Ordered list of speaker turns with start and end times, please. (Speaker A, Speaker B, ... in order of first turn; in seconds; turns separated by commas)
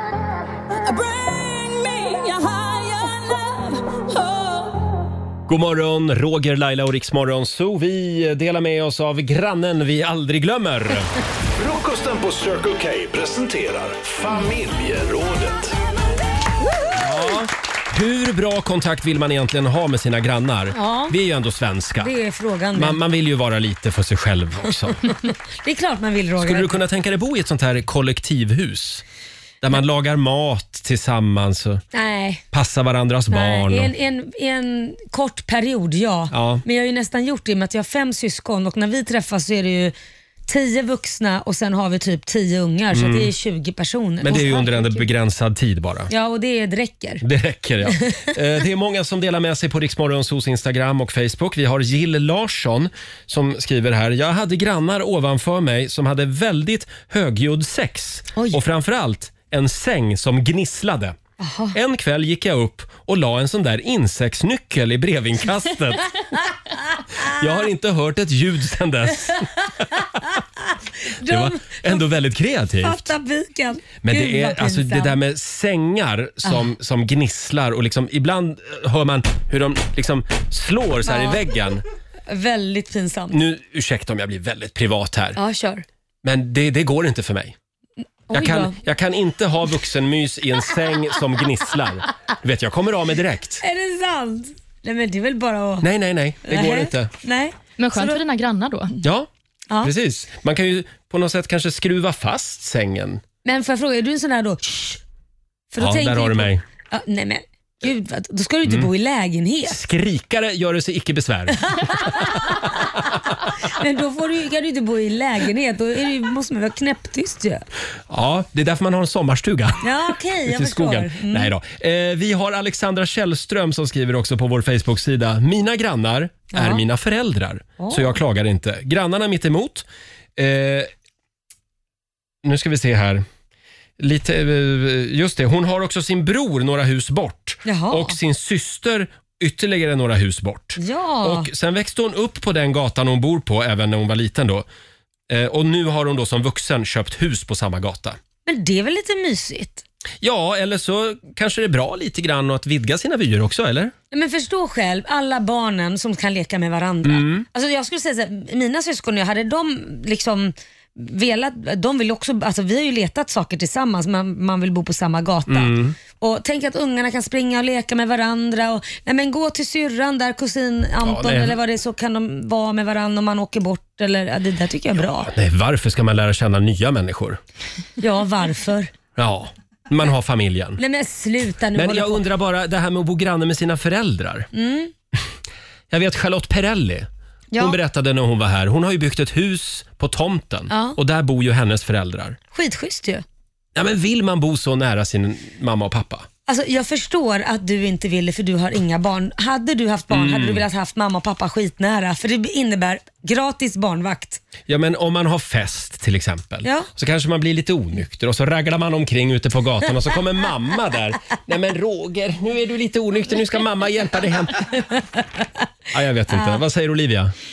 Speaker A: 0.9-5.0, Speaker B: 5.5-11.1, Speaker C: 11.6-15.8, Speaker B: 17.0-22.1, Speaker D: 20.7-21.1, Speaker D: 22.0-23.0, Speaker B: 22.7-25.0, Speaker D: 25.1-26.8, Speaker B: 26.4-29.0, Speaker B: 29.6-31.8, Speaker D: 31.9-32.4, Speaker B: 32.5-33.9, Speaker D: 33.3-39.9, Speaker B: 36.3-36.6, Speaker D: 40.5-44.5, Speaker B: 42.9-43.3, Speaker B: 44.2-46.1, Speaker E: 44.3-45.0, Speaker D: 46.1-47.2, Speaker B: 47.2-61.2, Speaker D: 48.0-48.3, Speaker D: 58.3-58.6, Speaker D: 61.4-61.8, Speaker B: 61.7-66.2, Speaker B: 67.2-70.2, Speaker D: 69.9-72.0, Speaker B: 71.2-73.1, Speaker D: 72.8-75.2, Speaker B: 74.0-81.8, Speaker D: 81.0-81.4, Speaker D: 82.3-83.4, Speaker B: 83.3-85.4, Speaker D: 85.4-85.8, Speaker B: 86.2-87.5, Speaker D: 88.3-88.8, Speaker B: 88.3-93.6, Speaker D: 93.6-95.9, Speaker B: 95.8-97.1, Speaker D: 96.5-98.2, Speaker E: 97.8-98.9, Speaker B: 99.0-99.3, Speaker B: 99.8-103.2, Speaker D: 103.5-105.0, Speaker D: 105.7-109.8, Speaker B: 105.8-106.6, Speaker B: 108.6-108.9, Speaker B: 109.7-112.9, Speaker D: 111.7-112.7, Speaker D: 113.4-117.7, Speaker B: 118.1-119.8, Speaker D: 119.8-121.5, Speaker B: 120.5-130.9, Speaker D: 126.5-126.8, Speaker D: 127.8-128.2, Speaker B: 132.4-133.2, Speaker B: 134.0-144.7, Speaker D: 137.7-138.2, Speaker D: 140.8-141.5, Speaker B: 145.3-148.2, Speaker D: 148.5-149.8, Speaker B: 150.2-153.9, Speaker D: 154.1-175.3, Speaker B: 157.0-157.4, Speaker B: 165.5-166.0, Speaker B: 171.0-171.6, Speaker B: 175.0-177.4, Speaker D: 178.0-178.9, Speaker B: 179.2-180.8, Speaker D: 180.8-182.2, Speaker B: 181.7-184.5, Speaker D: 184.5-184.9, Speaker B: 185.9-192.4, Speaker D: 190.7-191.0, Speaker D: 192.5-193.2, Speaker B: 193.8-196.3, Speaker D: 196.5-204.4, Speaker B: 200.1-200.7, Speaker B: 204.7-214.8, Speaker D: 206.6-206.9, Speaker D: 214.8-215.4, Speaker B: 215.9-217.3, Speaker D: 216.3-216.6